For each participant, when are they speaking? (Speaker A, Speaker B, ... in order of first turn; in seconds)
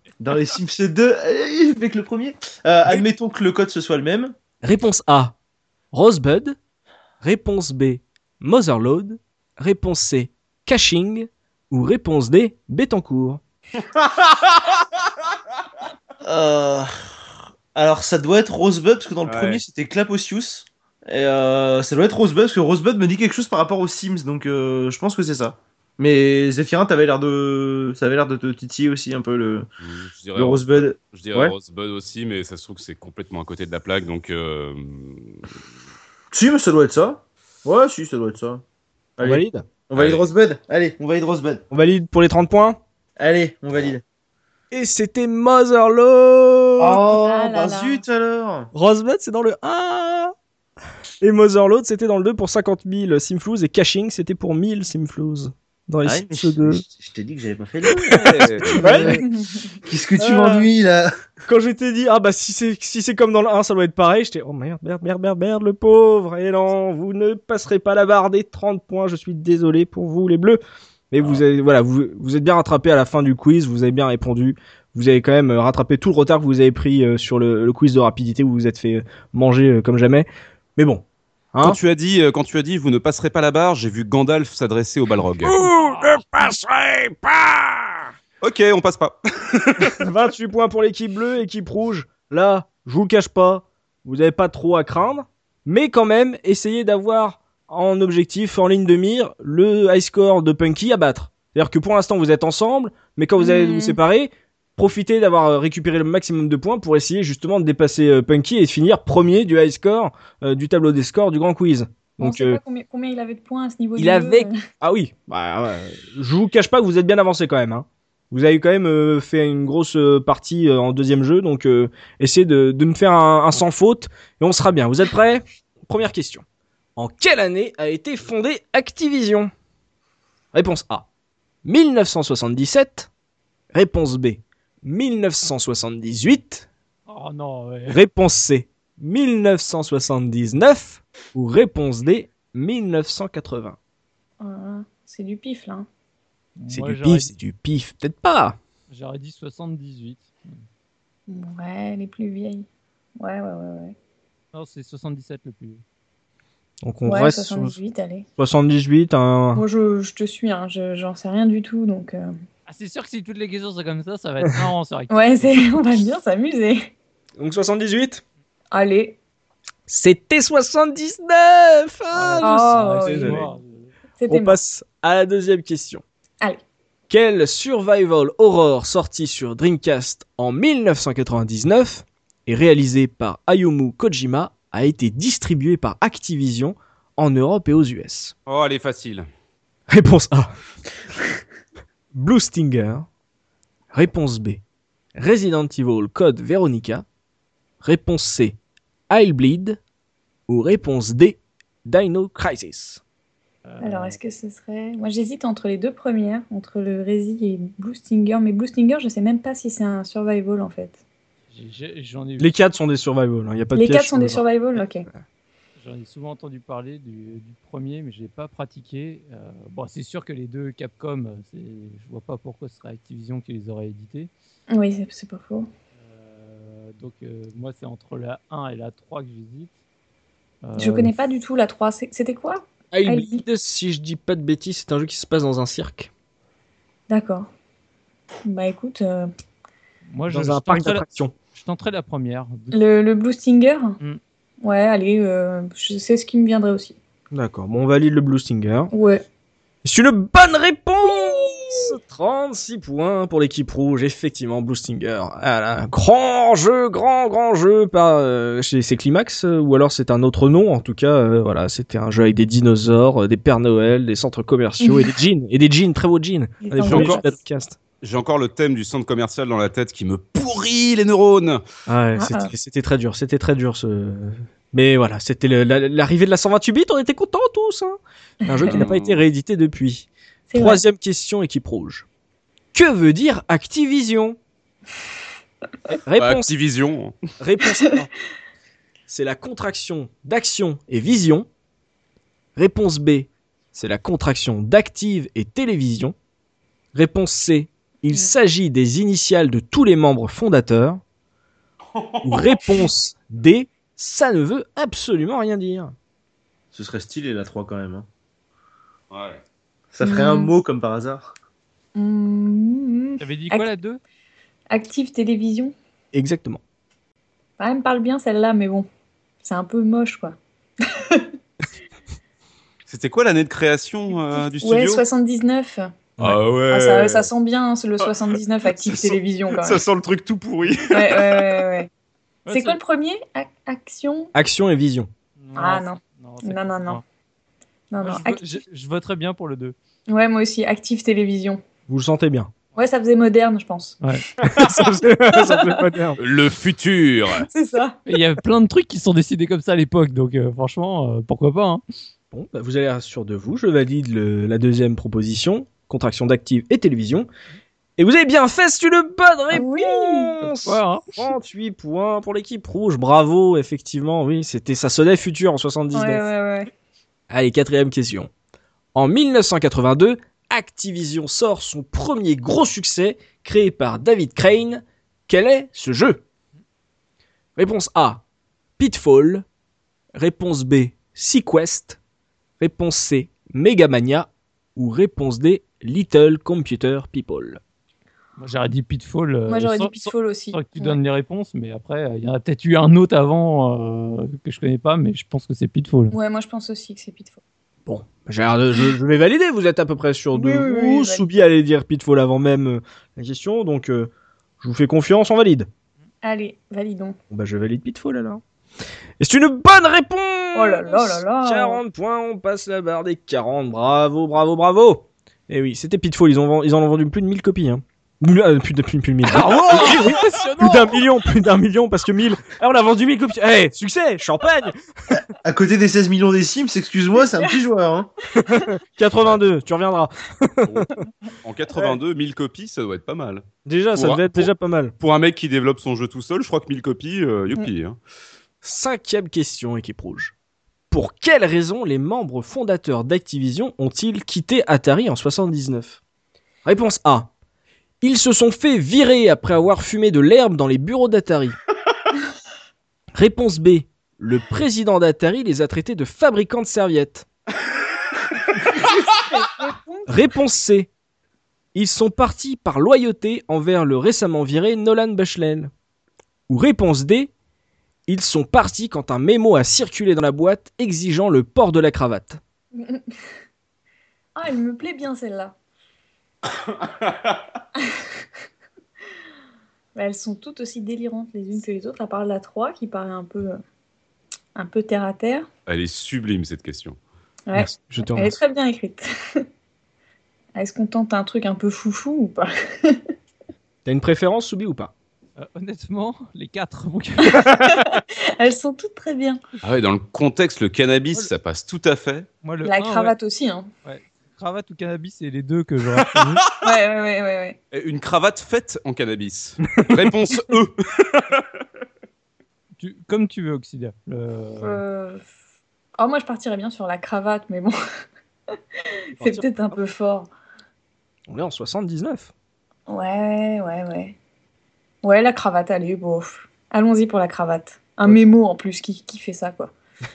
Speaker A: 0.2-4.3, 16.2-16.9, 17.8-29.7, 30.4-31.5, 36.3-38.6, 39.2-41.6, 43.2-44.0, 46.8-48.7, 56.0-59.2, 59.8-61.1, 306.7-308.1, 309.9-311.3, 425.4-428.1
Speaker B: 4.6-5.4, 5.9-6.6, 7.2-13.4, 39.2-39.6, 41.7-42.8, 44.7-47.0, 48.7-50.3, 51.2-56.8, 58.1-59.2, 60.2-60.7, 61.5-81.8, 85.4-88.0, 89.8-112.6, 114.0-126.4, 127.0-129.5, 130.5-131.1, 131.7-133.1, 133.7-136.7, 137.9-143.8, 146.7-148.6, 156.8-157.8, 158.4-159.7, 167.4-168.2, 169.9-173.4, 174.3-176.0, 177.1-188.3, 189.9-190.5, 192.1-193.1, 193.9-194.6, 195.2-197.1, 197.8-198.6, 199.1-199.8, 200.5-203.0, 212.4-214.4, 232.9-236.1, 240.3-241.3, 247.3-248.9, 249.8-267.8, 271.9-282.1, 282.7-284.4, 286.1-286.5, 287.4-288.1, 289.1-291.5, 292.6-296.1, 296.9-301.0, 302.2-305.9, 316.1-316.6, 334.4-335.1, 341.9-342.5, 344.4-346.2, 352.3-357.3, 358.0-366.2, 367.3-368.3, 368.9-376.2, 377.6-378.2, 378.8-379.4, 380.1-382.0, 382.6-387.6, 397.9-405.7, 407.3-408.4, 409.2-424.8, 428.4-430.9, 433.6-434.9, 438.6-440.3, 440.9-446.0, 446.7-447.3, 448.0-451.6, 453.1-457.3, 460.1-460.9, 461.7-465.7, 466.5-467.3, 468.1-472.4, 487.6-488.4, 493.9-494.9, 509.7-509.9, 519.2-519.8, 521.3-522.3
Speaker C: 14.2-14.7, 19.3-19.6, 29.8-35.5, 40.0-40.2, 58.1-58.8, 81.6-85.6, 88.4-90.0, 188.5-189.3, 266.8-267.2, 268.0-271.6, 278.7-279.2, 286.2-287.2, 301.9-302.4, 309.1-309.4, 322.9-325.0, 326.2-327.3, 328.0-331.6, 346.2-347.5, 431.4-433.4, 433.9-438.0, 476.9-477.1, 485.7-487.0, 499.6-502.3, 507.7-511.4
Speaker D: 47.1-48.0, 59.0-59.7, 103.4-104.0, 112.2-114.6, 144.4-145.9, 151.3-152.7, 153.2-153.9, 157.1-158.3, 159.6-162.3, 165.1-166.9, 168.7-169.2, 172.4-173.5, 174.2-174.6, 203.8-211.0, 213.7-215.1, 224.7-225.7, 230.8-233.4, 237.1-237.5, 238.4-239.3, 242.7-244.0, 244.6-247.0, 248.9-249.2, 264.8-265.1, 266.6-267.4, 272.2-272.5, 278.5-278.8, 280.5-280.8, 310.0-310.5, 311.9-313.7, 314.7-315.7, 317.6-318.9, 319.4-321.3, 324.6-325.9, 326.7-329.8, 330.9-331.9, 332.5-334.3, 335.6-337.0, 337.9-338.6, 340.1-341.6, 342.8-344.0, 345.3-345.8, 347.4-348.0, 359.5-360.3, 365.9-366.7, 389.5-391.0, 396.1-397.4, 400.3-401.2, 406.2-407.2, 410.6-411.8, 419.5-420.0, 458.5-460.2, 472.8-473.1, 474.4-475.6, 479.9-483.6, 484.6-485.5, 487.5-489.4, 490.6-493.0, 497.3-499.4, 502.6-503.7, 506.5-507.6, 514.6-515.3, 516.0-517.8, 519.2-520.3, 522.9-524.2, 525.0-529.7
Speaker E: 85.6-86.3, 137.1-138.0, 146.6-147.3, 148.9-150.6, 154.5-155.8, 162.7-165.8, 172.1-173.9, 203.7-204.2, 211.5-212.6, 215.8-224.3, 226.0-229.7, 230.6-231.1, 240.1-242.8, 313.2-314.0, 332.5-332.8, 335.4-337.0, 338.0-339.8, 348.1-351.8, 360.4-361.2, 388.4-396.1, 419.3-421.1, 495.4-497.5, 502.4-503.1, 503.9-506.6, 512.8-514.8